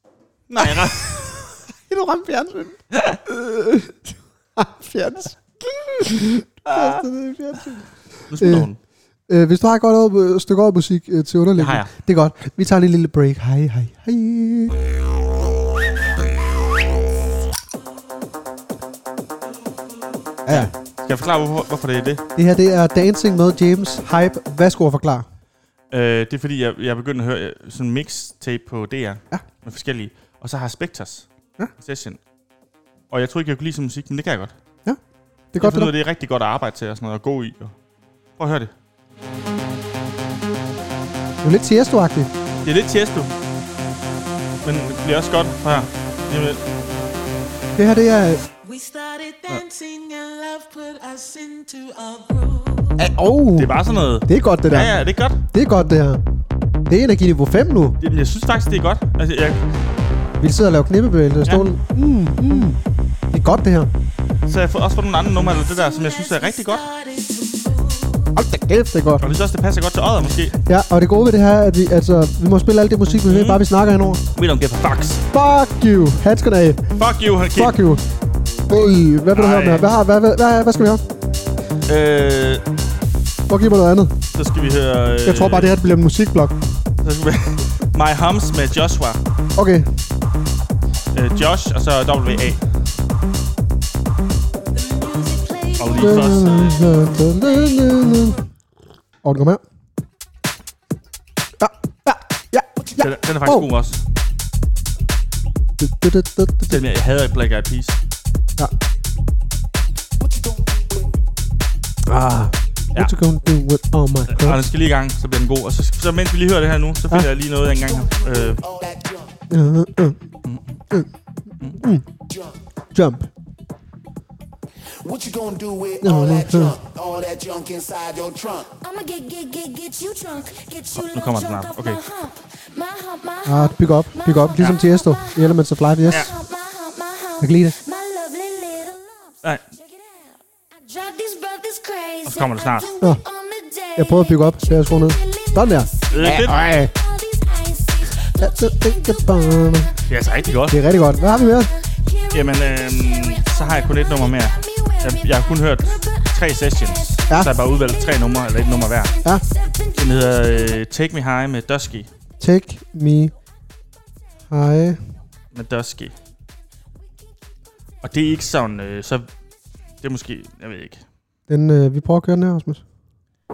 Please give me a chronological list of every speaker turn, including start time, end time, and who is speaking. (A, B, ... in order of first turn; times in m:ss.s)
0:00.5-0:01.3 A
0:00.6-0:08.7 B
0:02.9-0:03.2 A
0:06.7-0:07.0 A
0:08.3-0:08.8 A
0:09.3-0:14.8 B
0:11.6-0:11.9 A
0:20.4-0:20.7 B
0:20.5-0:22.2 A
0:22.4-0:25.2 B
0:25.9-0:32.2 A
0:33.1-0:34.6 A
0:35.5-0:35.9 B
0:35.6-0:37.7 A
0:38.4-0:38.7 A
0:41.4-0:42.3 B
0:42.6-0:43.3 A
0:44.6-0:46.6 A
0:47.8-0:48.4 B
0:48.6-0:53.1 C
0:53.0-0:56.2 B
0:53.5-0:55.4 A
0:56.8-0:58.0 B
0:58.0-0:59.6 A
1:00.4-1:02.8 B
1:01.4-1:01.7 A
1:03.3-1:03.9 B
1:04.4-1:06.8 A
1:05.5-1:08.4 C
1:08.3-1:09.3 B
1:09.2-1:10.6 A
1:10.6-1:14.2 B
1:13.3-1:13.6 A
1:14.3-1:15.2 A
1:15.3-1:17.0 B
1:17.0-1:17.8 A
1:17.5-1:18.0 B
1:18.7-1:21.0 B
1:19.3-1:19.9 A
1:21.8-1:22.6 A
1:23.5-1:24.2 B
1:24.3-1:25.7 A
1:25.2-1:26.6 B
1:27.0-1:29.2 A
1:29.5-1:30.0 B
1:31.1-1:32.6 A
1:34.7-1:38.0 C
1:35.8-1:36.9 A
1:36.0-1:38.4 B
1:39.2-1:39.6 B
1:41.6-1:43.7 B
1:43.0-1:44.0 A
1:45.8-1:46.8 B
1:46.7-1:48.0 A
1:50.2-1:51.1 D
1:52.0-1:54.6 B
1:54.3-1:58.7 A
1:57.7-1:59.4 D
1:59.5-2:00.2 B
2:01.8-2:02.0 B
2:02.3-2:02.5 D
2:02.9-2:03.3 B
2:04.9-2:08.7 D
2:06.0-2:06.8 B
2:08.7-2:15.3 E
2:10.9-2:12.0 A
2:13.4-2:16.3 B
2:16.2-2:30.0 E
2:17.4-2:17.7 B
2:22.2-2:22.9 A
2:24.0-2:26.9 B
2:26.1-2:26.6 A
2:28.4-2:29.9 B
2:30.1-2:30.8 A
2:30.7-2:31.7 B
2:31.1-2:40.8 E
2:32.3-2:39.2 A
2:37.3-2:37.5 B
2:40.0-2:42.1 A
2:42.4-2:43.3 B
2:44.5-2:45.2 B
2:45.5-2:46.1 A
2:48.0-2:49.3 A
2:50.0-2:51.0 A
2:51.5-2:52.8 B